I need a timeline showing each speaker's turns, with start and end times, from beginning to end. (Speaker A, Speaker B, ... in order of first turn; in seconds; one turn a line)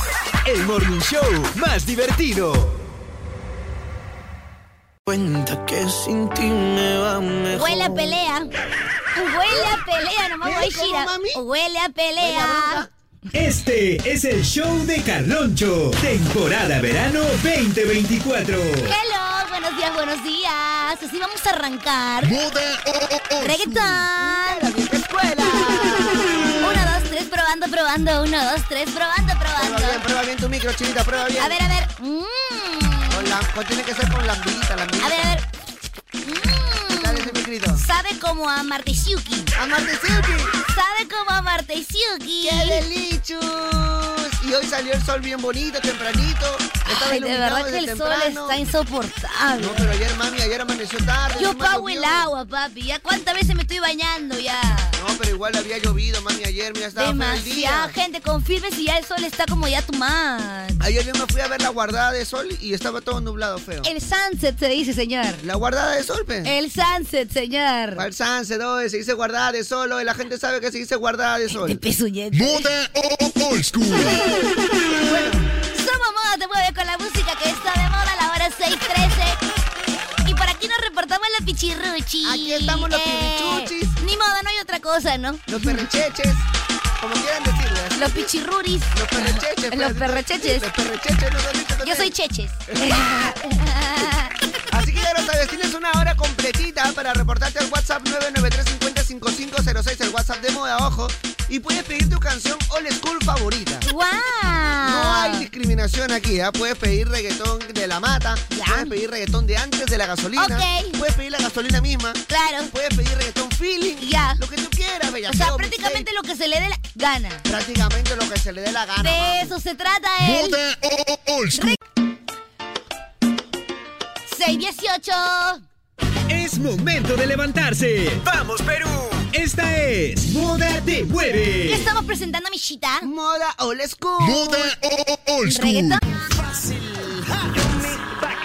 Speaker A: 0.4-2.8
Speaker B: 5.0-8.1
Speaker C: 7.5-8.5
Speaker C: 9.1-12.8
Speaker D: 10.4-11.4
Speaker D: 12.2-12.9
Speaker A: 13.3-18.9
Speaker C: 18.8-22.3
Speaker E: 22.2-24.1
Speaker C: 23.4-24.6
Speaker D: 24.1-26.7
Speaker C: 26.6-30.0
Speaker D: 29.6-31.6
Speaker C: 31.4-33.3
Speaker D: 33.1-35.4
Speaker C: 35.0-35.4
Speaker C: 36.2-39.5
Speaker D: 37.0-37.8
Speaker D: 39.5-40.5
Speaker C: 40.6-42.8
Speaker D: 42.4-48.6
Speaker C: 46.8-49.9
Speaker D: 49.5-52.3
Speaker C: 51.4-55.0
Speaker D: 55.0-57.9
Speaker C: 57.0-60.8
Speaker D: 60.8-63.9
Speaker C: 63.8-65.4
Speaker D: 65.4-66.5
Speaker C: 66.4-68.0
Speaker D: 67.9-71.8
Speaker C: 71.5-72.7
Speaker E: 72.3-74.2
Speaker D: 73.9-75.5
Speaker C: 75.7-79.4
Speaker C: 80.2-85.9
Speaker D: 82.2-84.0
Speaker D: 85.5-86.5
Speaker D: 87.0-88.3
Speaker C: 88.0-90.7
Speaker D: 88.9-92.1
Speaker C: 91.8-94.3
Speaker D: 92.7-93.1
Speaker D: 94.7-103.8
Speaker C: 103.8-105.5
Speaker D: 104.8-116.1
Speaker C: 108.5-108.9
Speaker C: 110.4-111.0
Speaker C: 112.3-112.7
Speaker C: 114.0-114.4
Speaker C: 115.3-117.4
Speaker D: 117.4-119.5
Speaker C: 119.0-120.6
Speaker E: 120.2-121.8
Speaker C: 124.3-125.6
Speaker A: 126.3-131.9
Speaker C: 131.7-133.1
Speaker D: 133.0-134.7
Speaker E: 134.2-136.0
Speaker C: 135.4-136.0